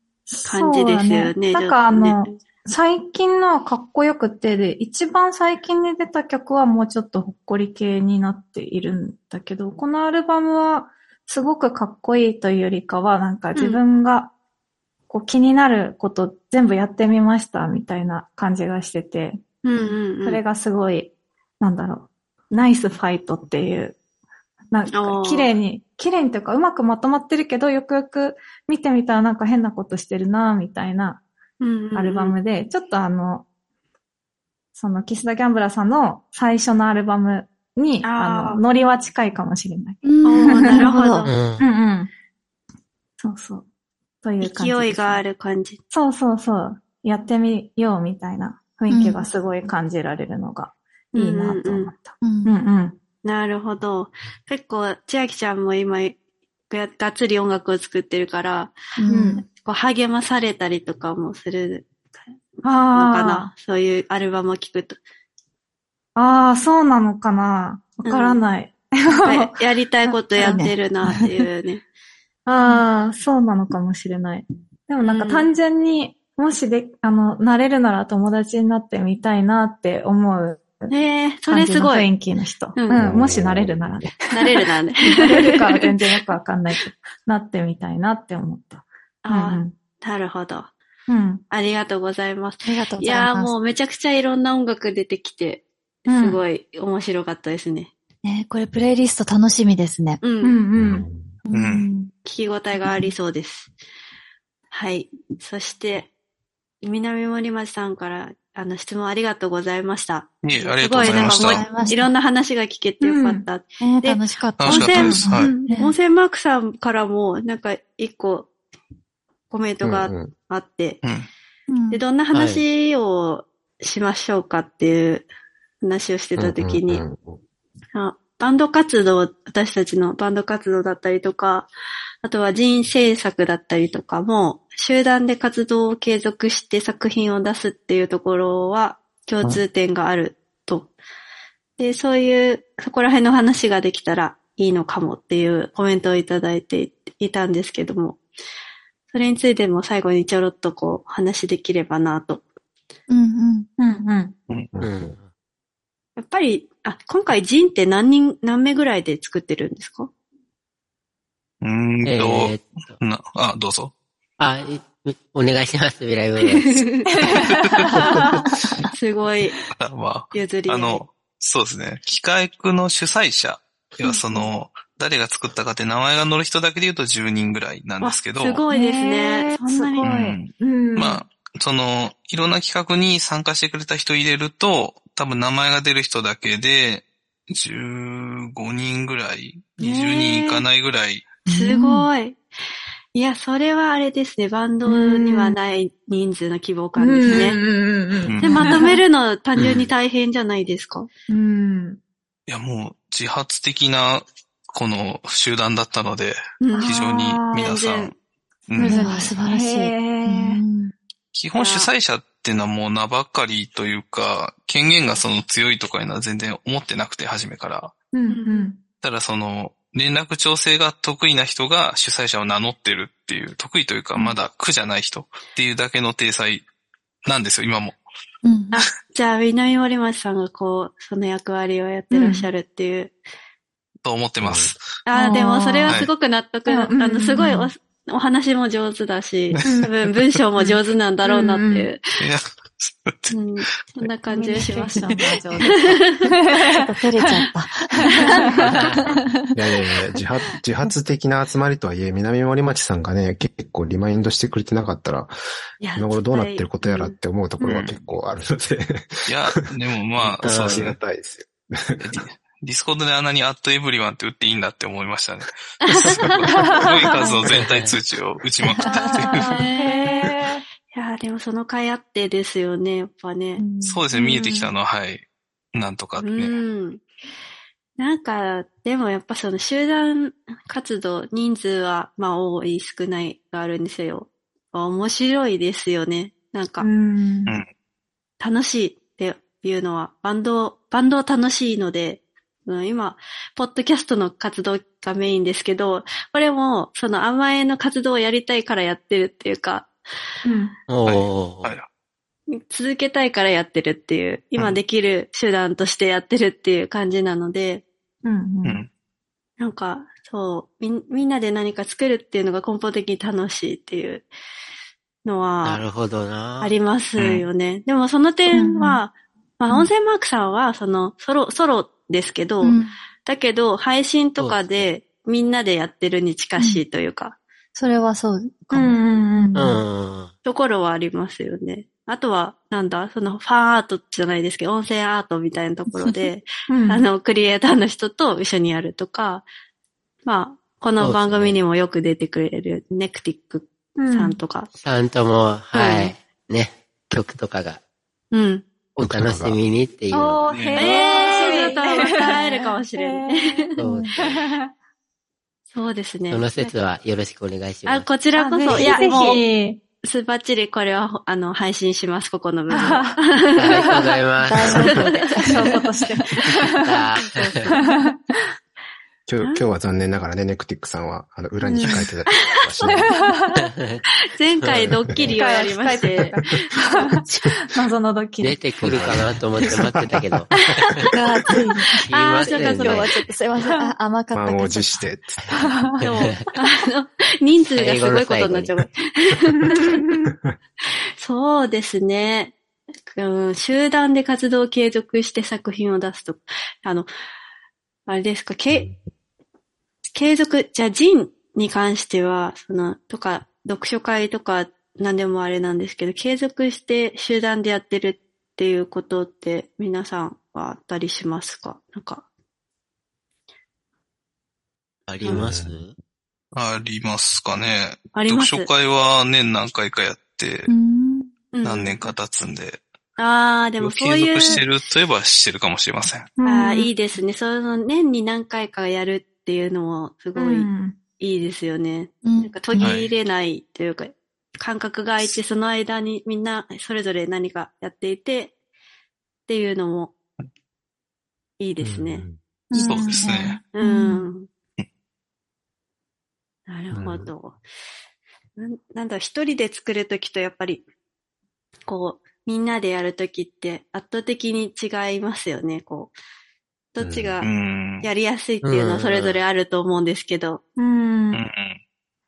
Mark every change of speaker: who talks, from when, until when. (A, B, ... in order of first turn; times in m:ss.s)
0:00.3-0:14.3 A
0:00.5-0:02.3 B
0:13.6-0:13.8 B
0:15.1-0:19.4 A
0:19.6-0:20.4 B
0:20.2-0:24.0 A
0:24.7-0:31.2 A
0:24.9-0:25.5 B
0:31.6-0:32.4 B
0:32.0-0:33.5 A
0:34.8-0:40.9 A
0:38.0-0:38.6 B
0:40.0-0:41.3 C
0:40.2-0:41.4 B
0:41.3-0:41.7 D
0:41.6-0:42.1 A
0:43.2-0:43.6 A
0:44.2-0:45.2 A
0:44.4-0:45.8 B
0:45.9-0:53.0 A
0:48.9-0:49.3 C
0:51.1-0:51.9 B
0:52.2-0:52.5 C
0:53.2-0:56.2 B
0:56.7-0:58.7 B
0:59.0-0:59.4 C
0:59.1-0:59.4 A
0:59.6-1:01.9 B
1:02.6-1:03.5 A
1:02.9-1:05.0 B
1:06.2-1:09.6 A
1:08.0-1:08.4 B
1:09.2-1:11.8 B
1:10.4-1:11.3 C
1:12.5-1:20.9 A
1:15.0-1:15.5 B
1:20.9-1:22.1 B
1:21.5-1:29.7 A
1:22.8-1:23.0 B
1:22.9-1:24.1 E
1:24.3-1:26.2 B
1:29.2-1:30.7 B
1:31.1-1:31.4 A
1:31.5-1:37.9 B
1:32.6-1:33.5 C
1:36.1-1:36.4 A
1:38.2-1:40.2 C
1:40.2-1:40.6 B
1:40.4-1:41.1 A
1:40.8-1:41.3 E
1:41.5-1:42.1 C
1:41.5-1:41.9 F
1:42.2-1:43.7 B
1:42.8-1:43.1 C
1:44.7-1:46.1 B
1:46.8-1:58.5 B
1:50.4-1:51.7 F
1:51.0-1:52.1 C
1:53.0-1:53.5 A
1:53.8-1:56.0 C
1:54.6-1:55.6 F
1:59.5-2:01.0 B
1:59.8-2:00.3 E
2:01.0-2:01.3 F
2:01.7-2:02.0 C
2:01.9-2:05.3 B
2:02.3-2:02.6 D
2:05.8-2:07.0 B
2:06.4-2:07.4 E
2:07.9-2:11.7 B
2:12.2-2:20.9 B
2:21.8-2:28.2 B
2:29.1-2:32.4 B
2:33.1-2:33.7 C
2:33.8-2:34.4 A
2:34.7-2:35.2 E
2:34.8-2:35.2 D
2:36.2-2:40.1 B
2:41.6-2:43.9 F
2:42.0-2:42.8 D
2:44.4-2:46.9 D
2:46.4-2:47.1 B
2:47.1-2:48.5 A
2:47.3-2:48.0 F
2:48.9-2:49.6 B
2:49.8-2:58.6 F
2:50.3-2:51.0 B
2:58.0-3:00.1 B
2:58.7-3:01.3 A
3:00.0-3:11.4 F
3:09.8-3:10.7 B
3:11.5-3:12.4 B
3:11.5-3:12.1 A
3:13.1-3:17.6 B
3:14.9-3:15.6 A
3:17.0-3:19.0 A
3:18.3-3:18.8 F
3:18.4-3:21.1 B
3:21.3-3:22.0 A
3:22.5-3:28.2 F
3:26.6-3:27.0 B
3:26.8-3:27.7 A
3:27.5-3:28.1 B
3:28.7-3:29.1 F
3:28.8-3:30.6 A
3:28.8-3:30.9 C
3:31.3-3:37.9 F
3:31.6-3:31.9 B
3:38.1-3:38.8 A
3:38.3-3:38.7 B
3:39.0-3:46.6 F
3:47.2-3:48.0 F
3:48.4-3:48.8 C
3:48.7-3:53.2 B
3:52.1-3:52.5 A
3:54.0-3:54.8 F
3:54.4-3:54.7 E
3:55.1-4:02.0 B
3:55.1-3:56.0 A
3:56.7-3:57.7 A
3:59.5-4:00.3 F
3:59.6-3:59.9 A
4:01.2-4:01.9 A
4:02.2-4:03.4 F
4:03.3-4:06.3 B
4:04.3-4:07.4 A
4:04.6-4:05.7 C
4:06.7-4:09.3 C
4:08.0-4:08.9 A
4:08.2-4:09.0 B
4:09.5-4:15.3 E
4:15.8-4:17.2 B
4:16.0-4:19.5 E
4:17.6-4:18.0 F
4:19.3-4:21.0 F
4:20.2-4:22.2 E
4:20.4-4:20.9 D
4:22.0-4:29.5 F
4:25.9-4:26.3 B
4:27.5-4:28.0 D
4:28.8-4:30.6 A
4:29.3-4:30.3 B
4:30.9-4:33.6 B
4:33.6-4:34.0 C
4:33.8-4:36.6 F
4:34.2-4:34.6 A
4:36.2-4:37.0 B
4:38.0-4:46.9 B
4:46.8-4:47.6 A
4:48.4-4:59.9 B
5:00.4-5:00.8 A
5:00.9-5:01.7 D
5:01.1-5:01.9 F
5:02.5-5:07.8 B
5:08.2-5:08.8 A
5:08.6-5:08.9 F
5:09.6-5:14.3 B
5:15.2-5:15.8 B
5:15.6-5:16.7 D
5:16.6-5:27.4 B
5:17.2-5:17.5 F
5:18.5-5:19.0 A
5:22.6-5:22.9 C
5:24.4-5:24.9 D
5:27.8-5:29.0 C
5:28.7-5:29.8 A
5:29.6-5:30.3 D
5:30.4-5:39.4 B
5:35.9-5:36.2 C
5:36.7-5:37.1 A
5:40.2-5:44.7 B
5:41.0-5:41.6 D
5:44.0-5:44.4 A
5:44.8-5:47.8 D
5:45.7-5:46.2 B
5:48.3-5:48.6 B
5:49.0-5:50.5 D
5:49.0-5:49.6 E
5:50.1-5:54.7 A
5:50.5-5:50.9 F
5:50.8-5:53.8 B
5:53.8-5:54.4 D
5:55.7-5:56.5 B
5:56.3-5:58.2 D
5:57.9-5:59.5 B
5:58.4-5:59.8 A
5:58.7-5:59.2 D
6:00.0-6:04.1 B
6:02.7-6:03.2 A
6:03.6-6:05.0 D
6:03.7-6:07.1 A
6:04.5-6:06.2 C
6:04.8-6:05.5 B
6:06.8-6:07.7 D
6:07.2-6:07.8 B
6:07.7-6:08.4 A
6:09.3-6:13.3 E
6:11.6-6:12.1 A
6:12.9-6:13.7 A
6:13.7-6:14.0 D
6:14.3-6:16.6 B
6:14.6-6:15.4 D
6:15.3-6:18.7 A
6:18.4-6:21.1 D
6:18.8-6:21.1 E
6:21.1-6:25.0 C
6:22.1-6:23.1 D
6:22.1-6:23.1 B
6:23.6-6:23.9 A
6:24.3-6:25.9 E
6:25.5-6:26.5 D
6:25.5-6:26.1 A
6:26.0-6:30.0 B
6:27.7-6:28.8 D
6:29.7-6:30.3 A
6:30.3-6:30.6 E
6:31.2-6:32.5 B
6:33.1-6:37.1 B
6:38.1-6:38.9 B
6:40.1-6:52.2 B
6:55.1-6:55.9 D
6:55.3-6:55.8 E
6:56.5-7:00.7 F
6:58.1-6:58.7 B
7:00.7-7:01.3 C
7:01.5-7:02.0 B
7:01.6-7:02.8 F
7:03.2-7:04.6 B
7:03.8-7:06.3 F
7:06.4-7:06.9 A
7:06.5-7:18.5 B
7:10.4-7:11.0 A
7:12.2-7:12.8 C
7:12.8-7:13.1 F
7:19.5-7:20.1 B
7:21.6-7:22.3 B
7:21.8-7:22.4 E
7:22.7-7:24.3 A
7:22.8-7:23.6 F
7:23.7-7:24.5 B
7:26.7-7:27.6 B
7:26.9-7:27.3 E
7:28.6-7:30.8 B
7:31.9-7:36.1 B
7:36.9-7:40.6 B
7:37.0-7:37.4 E
7:37.4-7:38.1 F
7:38.6-7:39.4 D
7:40.8-7:41.4 A
7:41.3-7:41.8 F